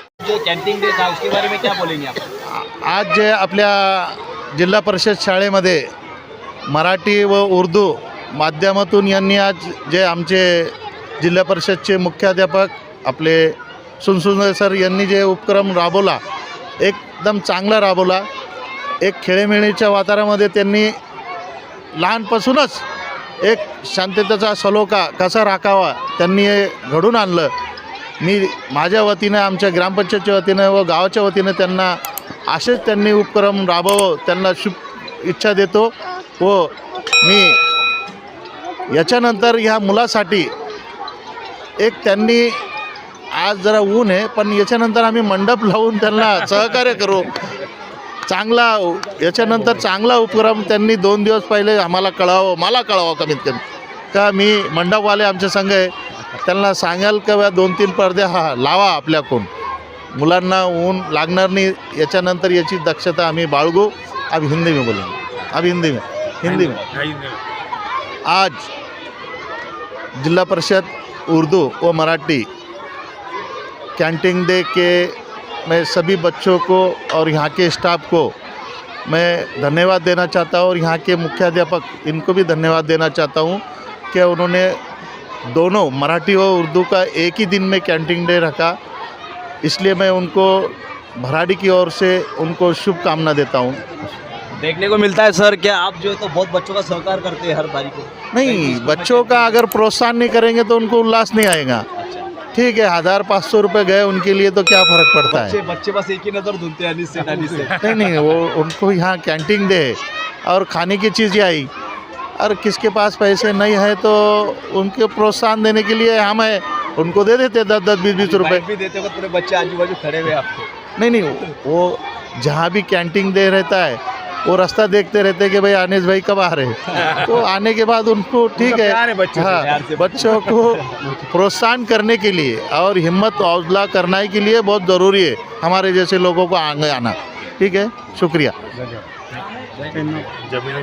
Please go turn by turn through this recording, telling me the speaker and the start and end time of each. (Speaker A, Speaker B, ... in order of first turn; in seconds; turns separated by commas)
Speaker A: 0.2-2.2, Speaker B: 2.5-5.9, Speaker B: 6.7-16.2, Speaker B: 16.8-18.3, Speaker B: 19.0-21.0, Speaker B: 22.0-22.8, Speaker B: 23.4-27.5, Speaker B: 28.2-37.6, Speaker B: 38.9-40.5, Speaker B: 41.8-42.6, Speaker B: 43.3-47.4, Speaker B: 48.3-53.6, Speaker B: 54.1-55.9, Speaker B: 56.4-59.5, Speaker B: 60.1-66.8, Speaker B: 68.3-68.7, Speaker B: 70.2-72.5, Speaker B: 74.0-75.2, Speaker B: 75.7-78.3, Speaker B: 79.1-83.6, Speaker B: 84.1-84.8, Speaker B: 85.5-88.8, Speaker B: 89.6-93.9, Speaker A: 94.6-99.6, Speaker B: 98.3-101.9, Speaker A: 102.0-102.3, Speaker B: 102.5-105.6, Speaker A: 105.3-107.8, Speaker B: 107.8-111.7, Speaker B: 112.4-118.7, Speaker A: 118.2-120.7, Speaker B: 121.0-138.5, Speaker A: 128.6-131.0